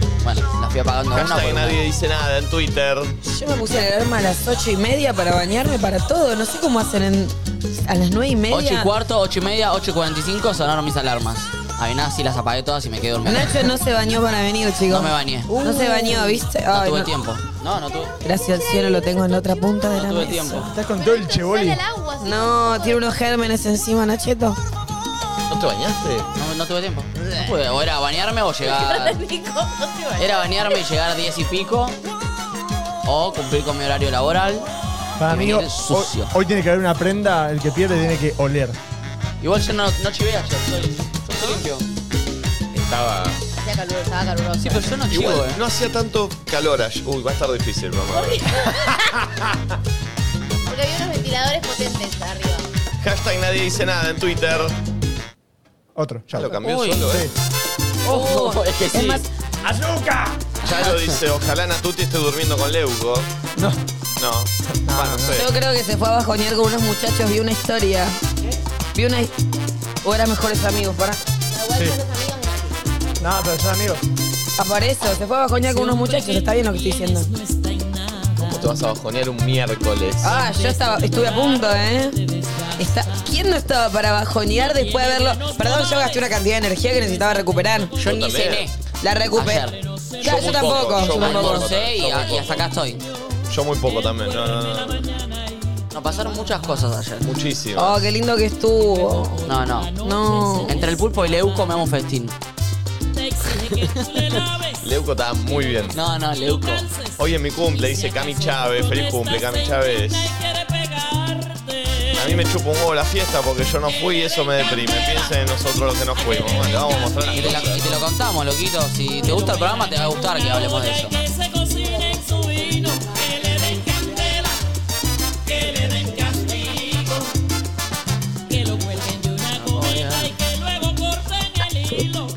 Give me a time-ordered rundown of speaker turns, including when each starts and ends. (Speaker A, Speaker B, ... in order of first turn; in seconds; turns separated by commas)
Speaker A: 0.2-1.8, Speaker B: 1.1-3.1, Speaker C: 3.2-8.9, Speaker A: 8.5-13.6, Speaker C: 13.2-17.1, Speaker A: 14.9-18.1, Speaker C: 18.2-20.7, Speaker A: 19.9-20.7, Speaker D: 20.6-21.8, Speaker E: 20.9-23.2, Speaker C: 22.2-24.6, Speaker B: 25.5-26.3, Speaker A: 26.3-29.2, Speaker E: 28.6-30.8, Speaker A: 30.2-32.0, Speaker A: 33.0-34.6, Speaker D: 35.2-38.8, Speaker A: 35.3-36.3, Speaker A: 39.4-41.8, Speaker B: 42.7-43.4, Speaker E: 43.6-45.0, Speaker A: 44.6-45.6, Speaker B: 45.1-48.4, Speaker E: 50.6-52.7, Speaker B: 53.0-54.7, Speaker D: 56.0-56.6, Speaker B: 56.3-57.3, Speaker A: 56.5-57.2, Speaker A: 58.1-59.2, Speaker C: 58.1-59.3, Speaker D: 59.6-60.4, Speaker B: 60.6-63.3, Speaker A: 60.7-61.1, Speaker B: 64.2-65.5, Speaker D: 64.9-65.4, Speaker C: 65.3-68.2, Speaker C: 68.9-69.3, Speaker C: 70.0-71.2, Speaker E: 71.5-72.8, Speaker D: 73.2-74.0, Speaker C: 74.6-77.3, Speaker B: 78.3-80.3, Speaker C: 80.2-82.2, Speaker C: 82.8-88.0, Speaker A: 88.0-88.7, Speaker B: 88.0-88.7, Speaker C: 89.0-89.7, Speaker A: 89.3-89.8, Speaker C: 90.2-91.7, Speaker B: 90.2-92.6, Speaker A: 91.2-93.0, Speaker B: 93.5-95.0, Speaker A: 95.9-97.3, Speaker B: 97.2-98.0, Speaker C: 97.8-99.4, Speaker A: 99.5-99.9, Speaker C: 100.0-100.8, Speaker A: 100.6-102.3, Speaker A: 103.9-104.3, Speaker B: 104.8-106.0, Speaker A: 105.9-106.9, Speaker B: 107.2-110.4, Speaker B: 112.1-118.0, Speaker A: 117.3-121.2, Speaker A: 129.5-130.3